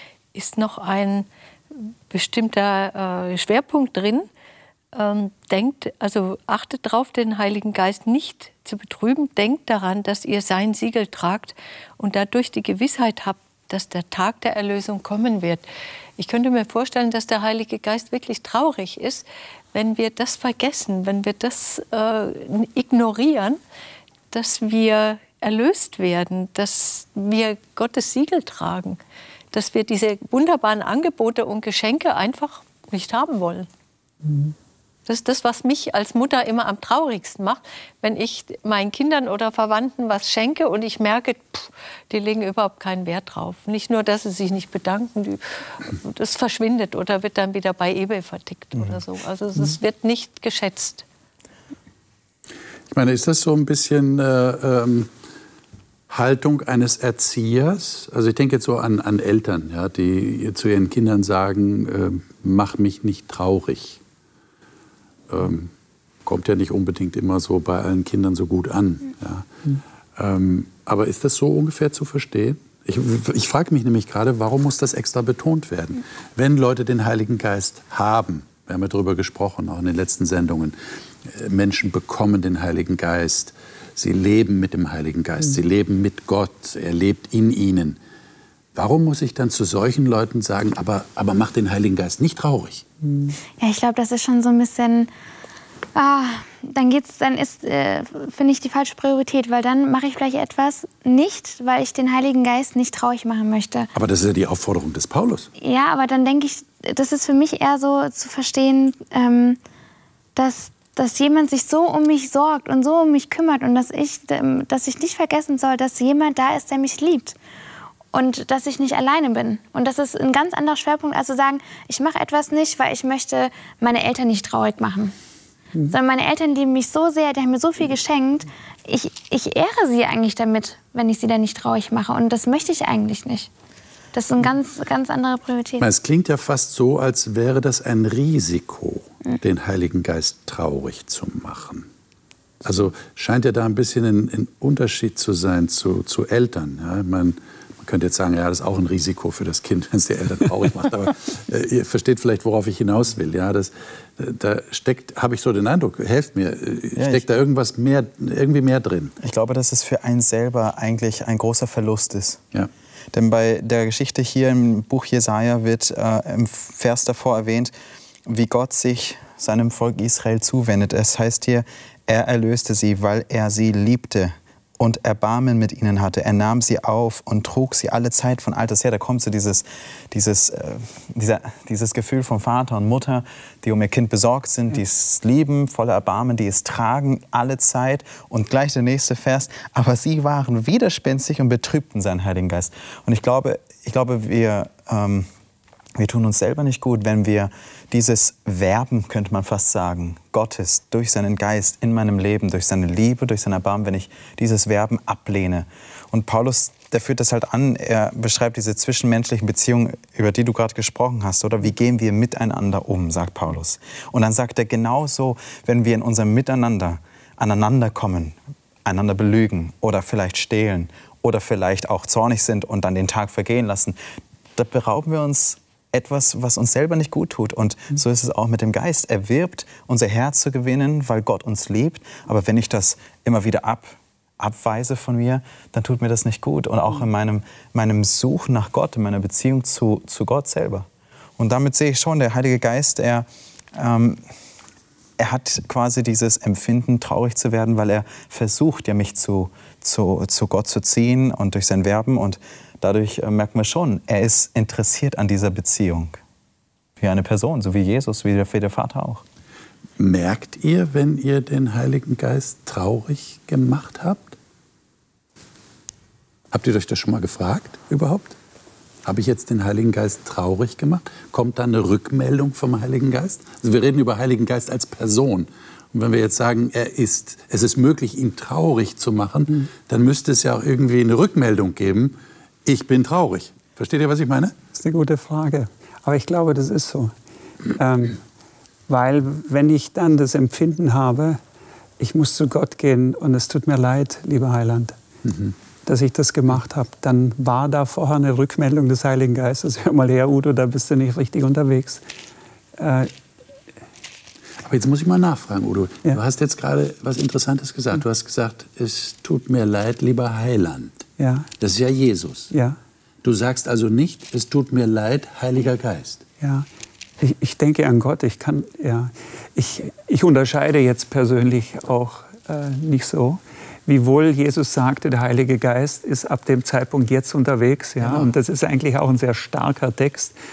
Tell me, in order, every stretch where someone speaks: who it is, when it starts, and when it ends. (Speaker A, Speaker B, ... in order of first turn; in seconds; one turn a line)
Speaker A: 0.3-4.3
Speaker A: 4.9-15.7
Speaker A: 16.2-23.6
Speaker A: 24.3-29.0
Speaker A: 29.5-33.7
Speaker B: 34.3-34.5
Speaker A: 35.1-51.0
Speaker C: 52.9-55.1
Speaker C: 56.1-64.0
Speaker C: 65.3-65.7
Speaker C: 66.2-69.5
Speaker C: 70.2-88.0
Speaker C: 88.7-92.8
Speaker B: 93.0-93.3
Speaker D: 93.6-95.1
Speaker D: 95.9-103.9
Speaker C: 103.9-105.5
Speaker D: 105.6-109.6
Speaker D: 110.3-117.3
Speaker D: 118.1-125.1
Speaker D: 125.9-133.5
Speaker D: 134.1-135.9
Speaker C: 135.8-141.9
Speaker C: 142.6-159.2
Speaker E: 156.9-157.3
Speaker E: 159.2-162.4
Speaker E: 163.1-167.7
Speaker E: 168.2-195.3
Speaker E: 196.0-224.0
Speaker E: 224.6-244.2
Speaker E: 245.2-256.2
Speaker E: 257.0-259.2
Speaker C: 260.0-264.4
Speaker C: 266.5-268.4
Speaker C: 269.0-284.6
Speaker B: 284.7-287.1
Speaker B: 287.7-288.2
Speaker B: 288.9-291.4
Speaker B: 292.0-294.9
Speaker C: 295.2-295.5
Speaker B: 295.9-302.0
Speaker B: 302.8-303.1
Speaker C: 304.6-311.1
Speaker B: 311.2-311.5
Speaker C: 311.6-312.5
Speaker B: 312.5-312.8
Speaker C: 313.2-316.2
Speaker B: 316.4-316.7
Speaker B: 317.2-330.4
Speaker C: 328.0-328.3